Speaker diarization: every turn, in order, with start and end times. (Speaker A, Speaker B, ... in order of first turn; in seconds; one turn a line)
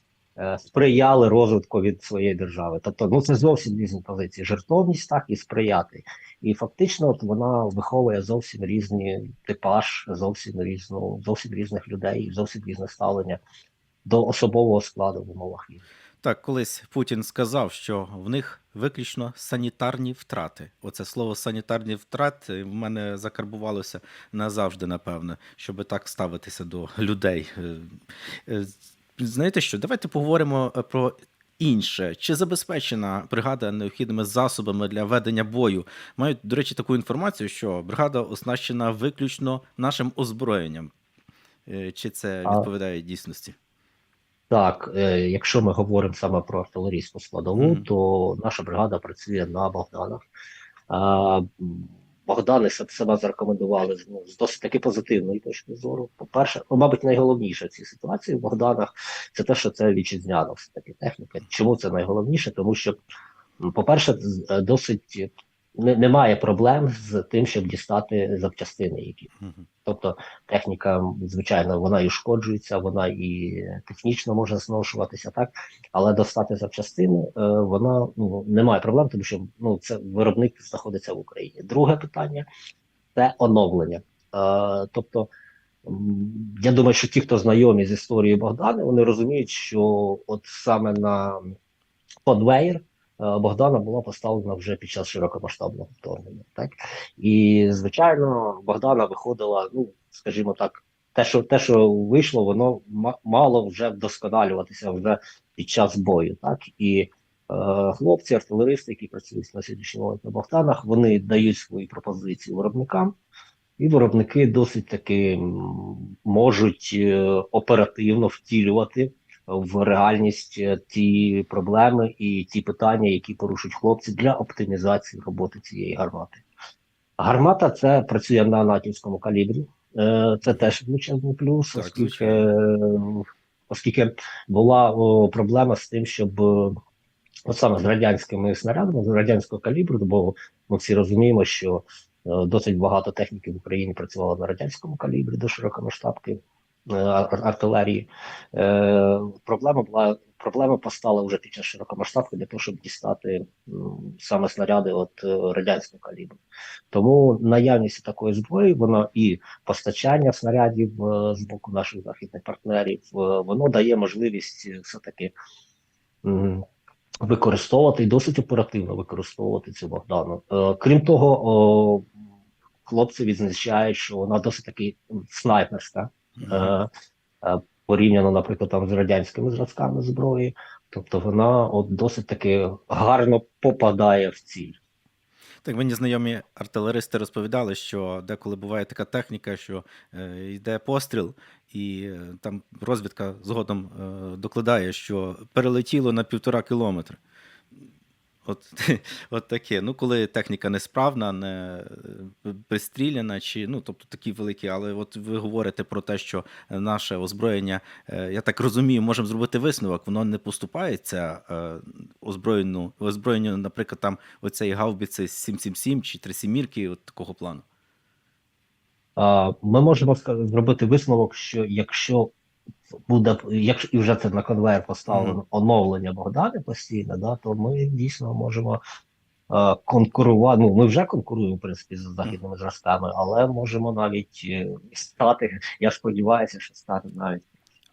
Speaker A: 0.3-13.4
Speaker A: 14.0-15.8
Speaker B: 16.2-27.9
Speaker B: 28.5-40.9
Speaker B: 41.6-43.5
Speaker A: 44.5-50.2
Speaker B: 47.6-47.8
Speaker A: 50.9-63.0
Speaker A: 63.6-69.3
Speaker A: 69.8-82.5
Speaker A: 83.1-85.3
Speaker A: 85.8-91.5
Speaker A: 92.2-113.2
Speaker A: 113.8-126.4
Speaker A: 127.2-136.8
Speaker B: 131.7-132.4
Speaker A: 137.5-156.4
Speaker A: 156.9-165.3
Speaker A: 166.2-166.6
Speaker A: 167.2-172.1
Speaker A: 172.8-176.9
Speaker B: 176.4-176.7
Speaker A: 177.4-184.8
Speaker B: 185.6-197.2
Speaker B: 198.4-217.6
Speaker A: 219.2-222.3
Speaker A: 223.1-228.8
Speaker B: 225.1-225.4
Speaker A: 229.5-237.4